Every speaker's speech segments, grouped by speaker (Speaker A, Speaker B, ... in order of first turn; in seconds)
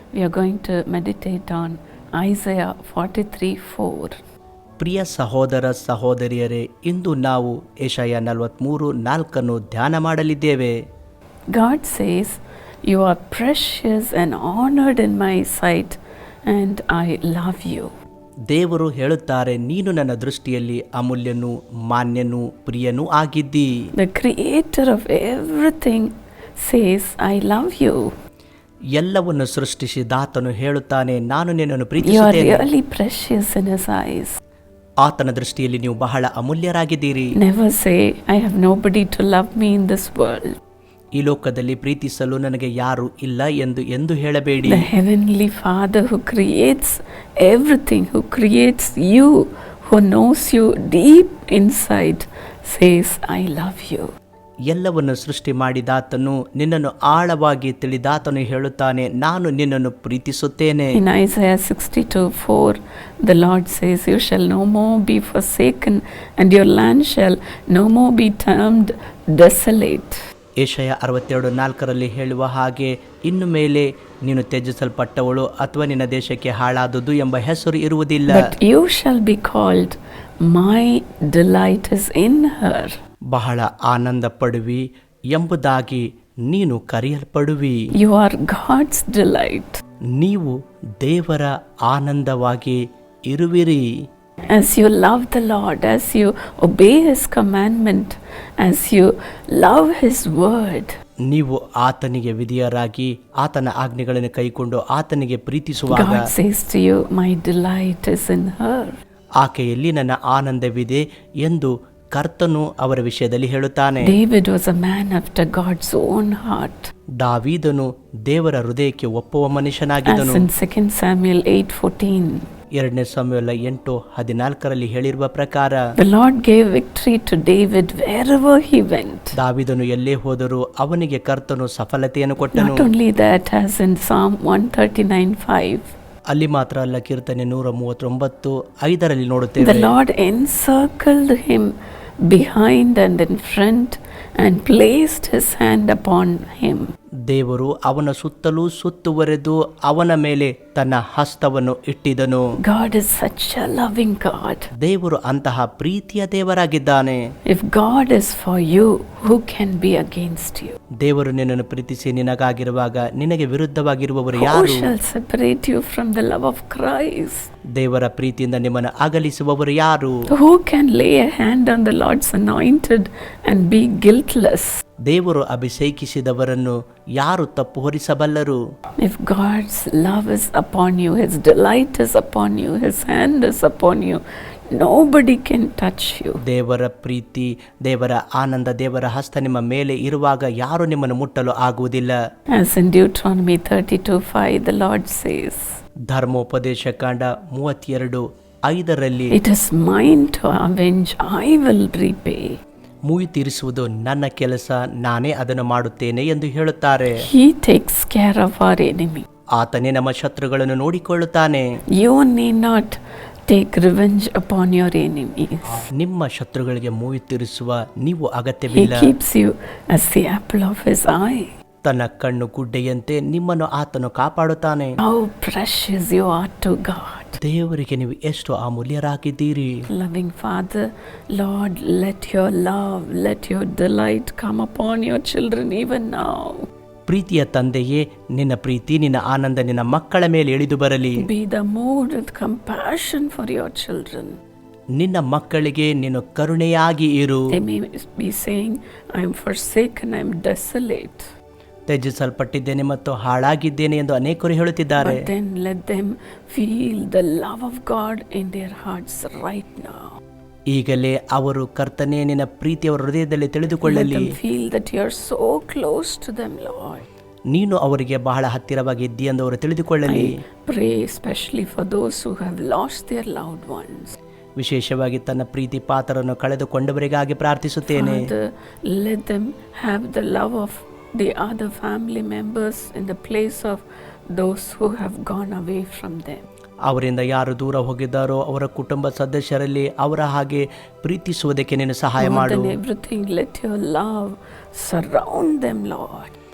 Speaker A: 0.1-4.2, 11.5-17.9, 24.0-28.1, 32.0-34.4, 37.4-40.6, 44.6-54.1, 60.9-70.2, 78.3-83.0, 87.9-89.8, 94.5-100.9, 105.9-109.0, 114.0-116.9, 120.0-122.5, 126.0-129.3, 132.5-135.9, 139.6-141.7, 142.3-146.9, 152.6-154.7, 157.5-160.8, 164.3-167.5, 170.3-174.8, 179.0-186.4, 192.5-195.7, 199.3-202.6, 207.2-209.2, 212.0-215.8, 218.7-221.5, 225.0-227.4, 229.9-236.7, 241.2-244.4, 247.5-251.3, 255.0-260.2, 263.8-267.0, 270.1-274.1, 277.9-286.4, 292.2-296.3
Speaker B: 4.8-10.7, 18.5-23.7, 28.9-32.6, 35.0-37.3, 41.2-44.9, 54.7-60.9, 70.6-78.5, 83.3-87.8, 90.2-93.8, 101.3-106.2, 109.4-114.1, 117.2-120.5, 122.8-125.8, 129.3-132.9, 136.3-139.9, 147.3-152.4, 154.8-157.2, 161.0-164.9, 167.8-170.2, 175.1-178.6, 186.4-192.2, 196.1-199.3, 203.1-207.1, 209.6-211.6, 215.9-219.1, 221.8-225.0, 227.4-229.8, 237.1-241.2, 245.0-247.4, 251.9-255.2, 260.7-264.3, 267.5-270.3, 274.6-278.3, 286.9-292.7